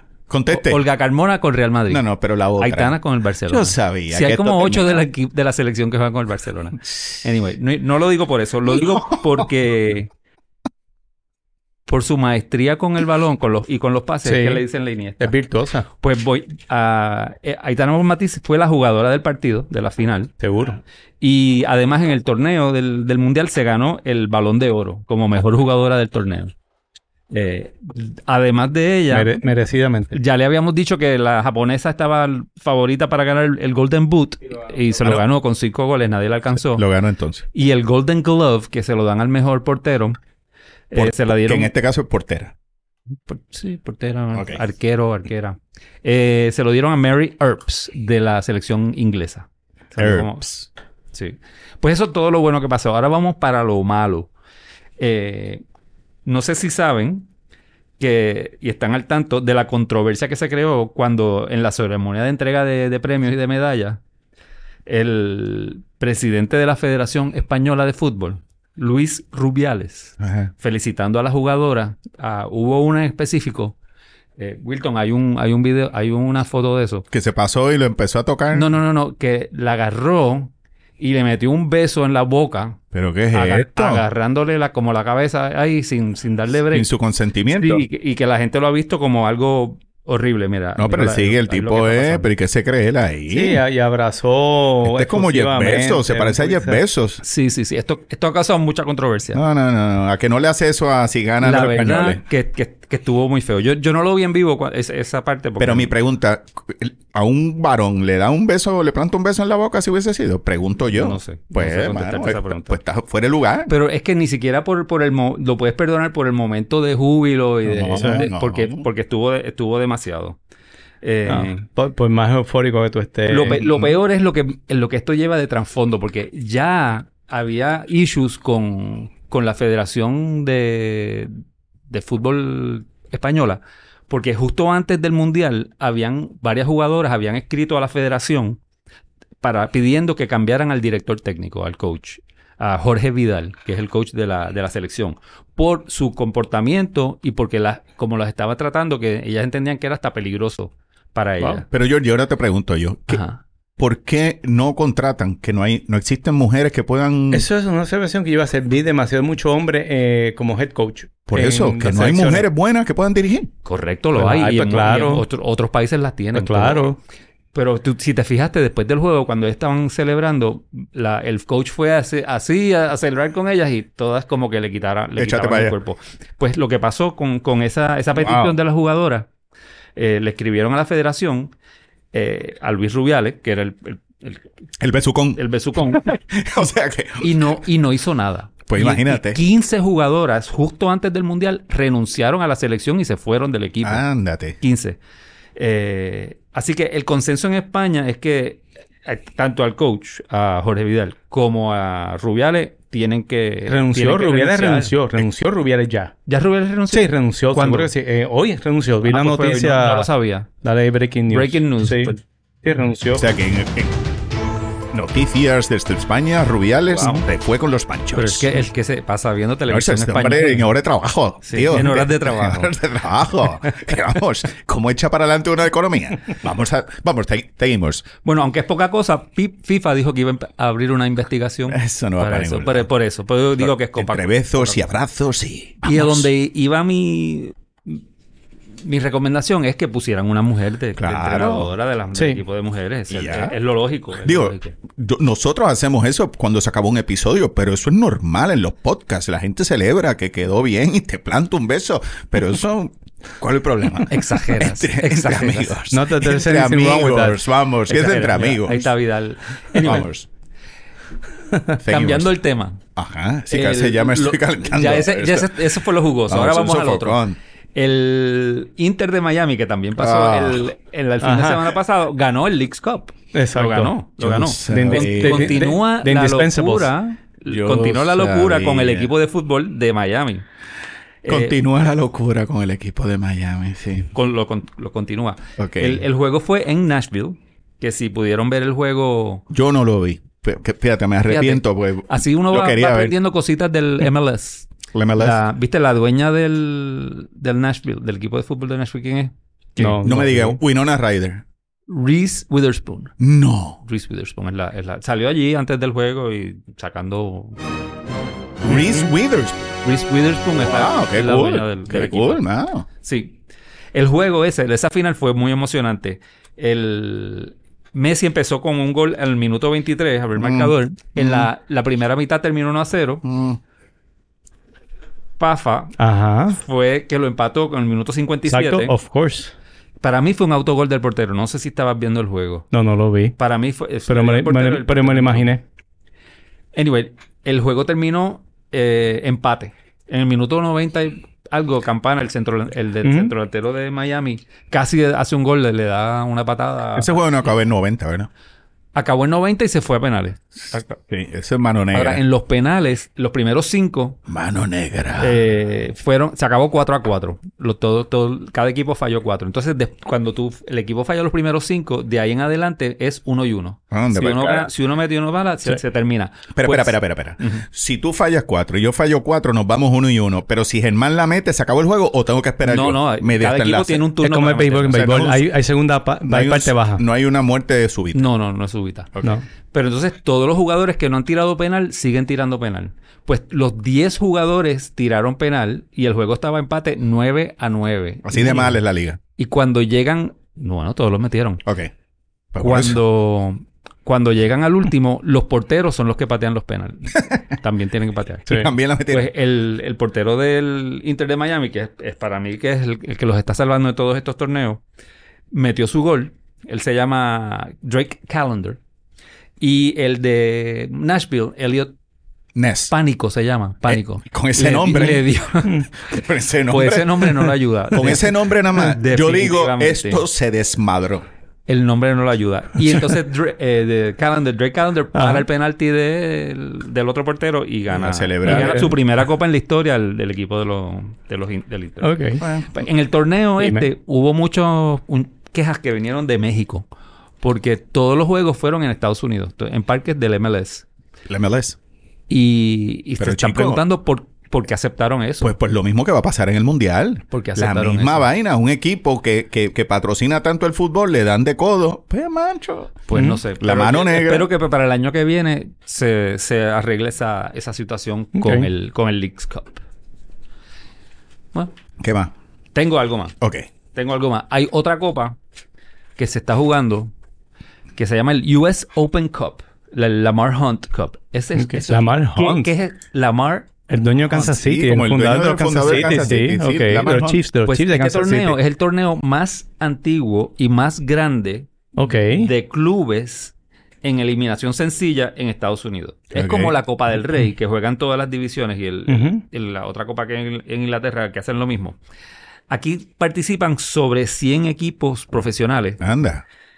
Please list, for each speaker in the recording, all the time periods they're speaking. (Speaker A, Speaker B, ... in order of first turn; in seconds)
Speaker A: 0.3-0.8, 1.9-2.9, 3.5-5.0, 8.7-9.2, 36.6-37.4, 40.9-42.5, 44.3-44.6, 50.0-50.7, 70.2-70.5, 77.1-78.7, 82.9-84.0, 86.7-87.8, 90.8-93.6, 94.8-97.2, 99.3-102.2, 105.6-113.7, 117.7-118.8, 151.6-153.2, 153.8-157.4, 161.3-163.5, 175.2-175.7, 178.1-178.6, 184.8-185.4, 185.9-187.5, 188.7-189.4, 193.8-194.6, 213.2-214.0, 214.9-218.5, 219.7-228.1, 231.7-232.9, 233.6-236.3, 240.9-241.7, 243.1-243.6, 244.2-258.9, 259.8-260.3, 261.8-262.3, 262.9-265.5, 266.3-267.4, 269.9-270.6, 274.2-275.6, 277.5-279.1, 281.3-284.1, 285.6-286.0, 289.5-293.1, 294.9-295.4, 300.0-301.4, 303.2-303.8, 308.6-309.7, 310.5-312.9, 320.4-321.5, 323.2-323.6, 346.9-348.3, 351.0-352.2, 354.3-355.4, 363.9-364.7, 366.6-374.0, 374.9-375.5, 376.3-378.2, 388.2-389.2, 391.6-391.9, 392.5-393.0, 398.5-399.2, 412.5-412.9, 413.8-415.3, 416.1-421.2, 427.9-428.9, 432.4-432.7, 441.3-441.8, 443.2-443.8, 445.4-453.0, 453.6-454.5, 462.0-462.3, 463.4-463.7, 474.5-477.4, 486.3-486.7, 496.0-496.4
Speaker B: 0.5-2.0, 2.6-10.1, 11.9-15.3, 16.0-20.3, 21.2-26.5, 27.3-29.4, 30.1-36.9, 37.5-40.2, 40.9-41.7, 43.3-50.5, 51.1-54.3, 55.0-55.6, 56.2-57.3, 58.0-64.0, 64.8-73.8, 74.4-77.0, 78.5-82.8, 83.3-86.9, 87.5-92.3, 97.2-99.4, 101.4-105.9, 110.9-112.7, 113.7-120.4, 121.0-121.6, 123.3-131.3, 131.9-138.6, 139.4-151.7, 153.1-153.4, 163.6-166.9, 167.5-179.3, 179.9-181.5, 182.1-184.4, 185.3-186.1, 187.2-194.0, 194.6-195.0, 195.6-204.9, 206.3-207.9, 209.0-210.5, 211.3-212.2, 216.9-217.2, 218.1-220.7, 221.4-222.7, 228.2-234.9, 235.8-238.0, 238.8-244.7, 254.1-255.7, 257.9-260.1, 261.8-262.8, 263.5-267.2, 267.7-280.4, 281.2-281.6, 284.1-289.4, 291.2-300.0, 301.9-303.1, 303.8-307.6, 309.8-312.4, 313.0-313.4, 313.9-323.2, 325.4-325.9, 326.5-328.9, 330.0-332.7, 333.4-335.4, 336.7-347.4, 348.9-351.0, 351.9-354.2, 355.2-367.6, 372.6-375.1, 378.1-379.1, 379.7-388.8, 389.4-391.6, 392.6-398.6, 399.1-404.8, 405.5-408.8, 409.6-411.9, 412.9-416.2, 416.7-420.2, 421.7-432.2, 432.7-436.9, 437.4-440.8, 442.3-445.5, 447.3-448.3, 453.1-459.8, 462.7-463.4, 463.9-465.4, 466.2-467.1, 467.9-474.5, 475.9-476.2, 477.6-492.0, 492.7-496.0
Speaker C: 14.2-14.6, 15.2-15.8, 20.4-20.8, 29.1-30.2, 93.3-96.8, 117.8-118.2, 121.2-123.8, 157.3-162.5, 164.2-165.2, 166.3-167.0, 203.7-206.1, 206.9-210.1, 210.6-212.1, 212.6-213.2, 242.1-242.4, 255.9-257.4, 271.2-271.7, 273.3-273.9, 274.6-276.9, 299.8-300.6, 326.0-326.6, 328.4-329.5, 332.7-333.3, 334.1-335.6, 343.0-343.3, 374.2-377.0, 425.1-425.4, 428.4-428.9, 432.0-432.4, 433.6-433.9, 453.1-453.4, 458.4-458.7, 471.6-472.7, 473.9-478.6, 481.9-482.5, 489.1-489.4